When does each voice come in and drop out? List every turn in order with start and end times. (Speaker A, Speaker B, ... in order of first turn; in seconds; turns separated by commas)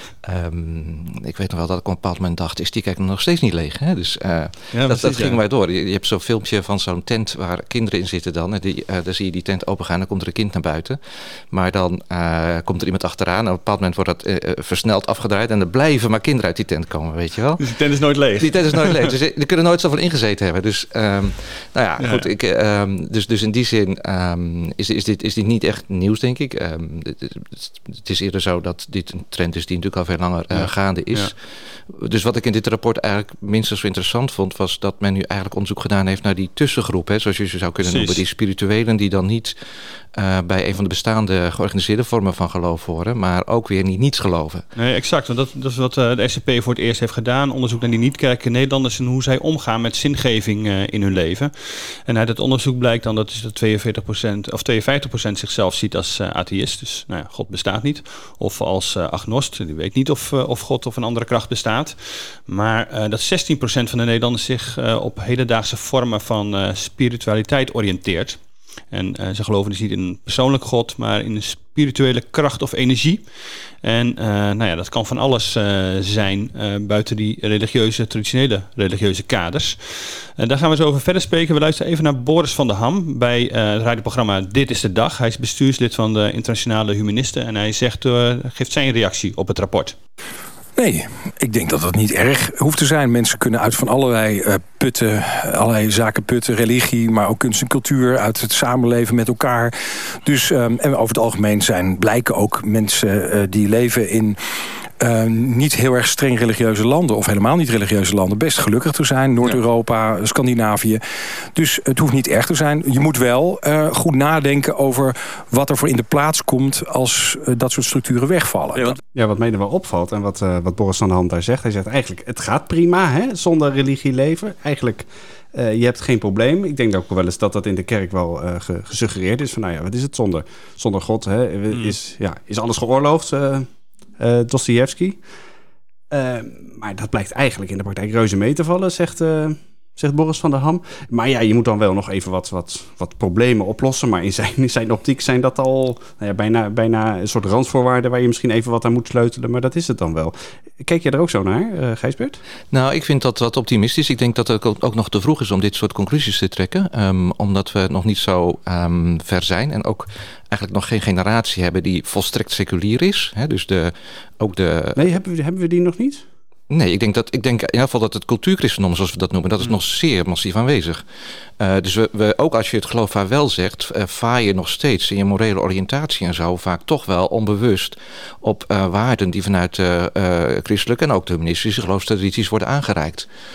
Speaker A: 0.2-17.6, Speaker B: 4.7-5.4, Speaker B: 17.6-19.1, Speaker A: 18.4-31.4, Speaker B: 22.0-22.3, Speaker B: 30.5-31.3, Speaker A: 31.9-44.6, Speaker B: 37.8-38.2, Speaker B: 44.8-68.4, Speaker B: 68.9-90.0, Speaker C: 90.8-104.4, Speaker C: 105.0-111.0, Speaker C: 111.5-119.0, Speaker D: 119.1-133.7, Speaker D: 134.2-135.2, Speaker D: 136.1-152.4, Speaker A: 152.7-165.1, Speaker D: 165.0-166.3, Speaker A: 166.7-171.0, Speaker A: 171.6-183.3